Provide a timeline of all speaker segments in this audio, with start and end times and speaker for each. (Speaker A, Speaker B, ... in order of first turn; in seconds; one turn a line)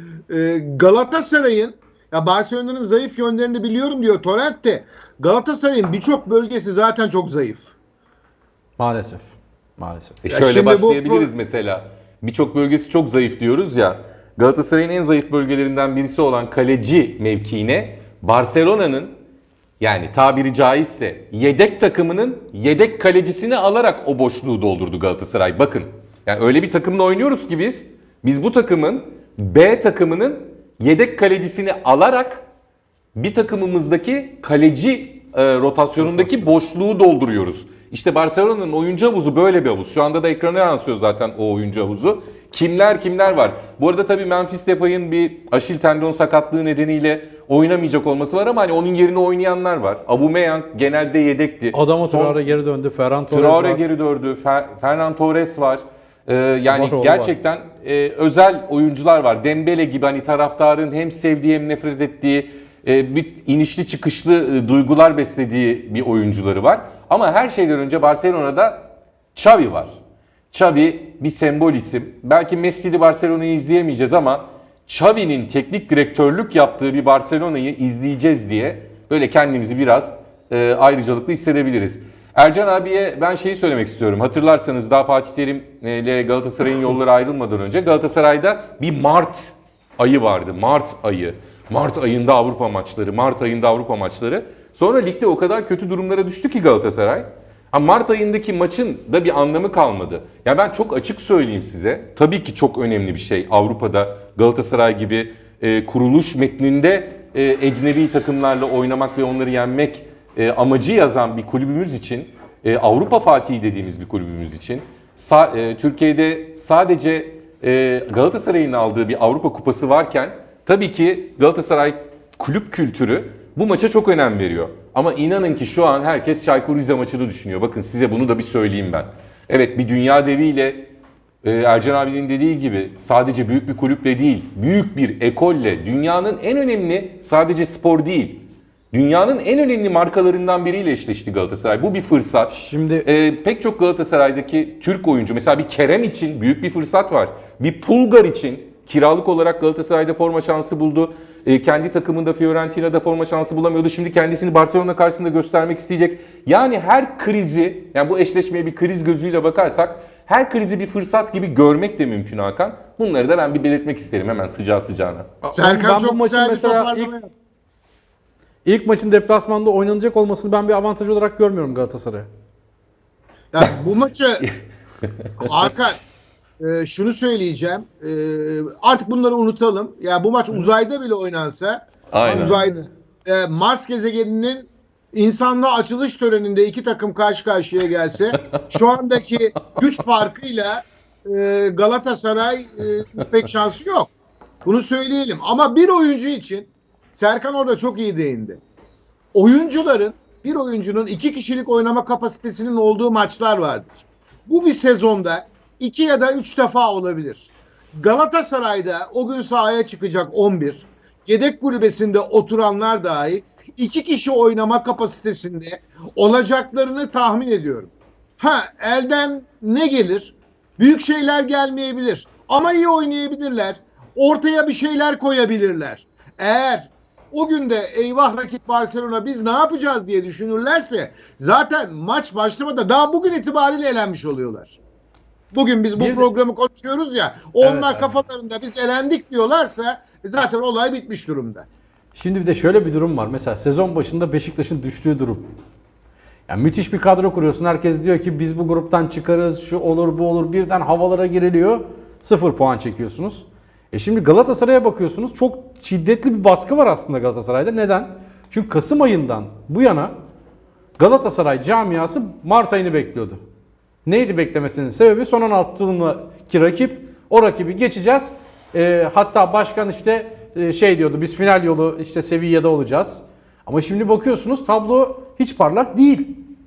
Speaker A: 0.3-7.7
Speaker B: 8.8-10.2
Speaker C: 10.2-19.2
Speaker A: 10.3-11.3
Speaker C: 19.8-32.4
Speaker C: 33.1-52.4
Speaker B: 36.0-36.5
Speaker B: 51.7-53.8
Speaker C: 53.3-69.9
Speaker B: 56.7-57.3
Speaker C: 70.5-130.9
Speaker C: 131.4-165.3
Speaker B: 142.5-143.1
Speaker B: 165.4-167.1
Speaker A: 165.6-167.3
Speaker B: 168.6-172.3
Speaker A: 173.5-174.4
Speaker C: 175.0-175.4
Speaker A: 175.4-176.0
Speaker A: 176.6-194.1
Speaker C: 182.1-182.6
Speaker B: 182.2-182.8
Speaker A: 194.6-198.6
Speaker A: 199.3-234.8
Speaker A: 235.5-241.7
Speaker B: 236.0-236.3
Speaker B: 237.6-238.1
Speaker B: 242.1-245.5
Speaker B: 246.5-260.1
Speaker B: 261.0-263.4
Speaker B: 264.1-276.4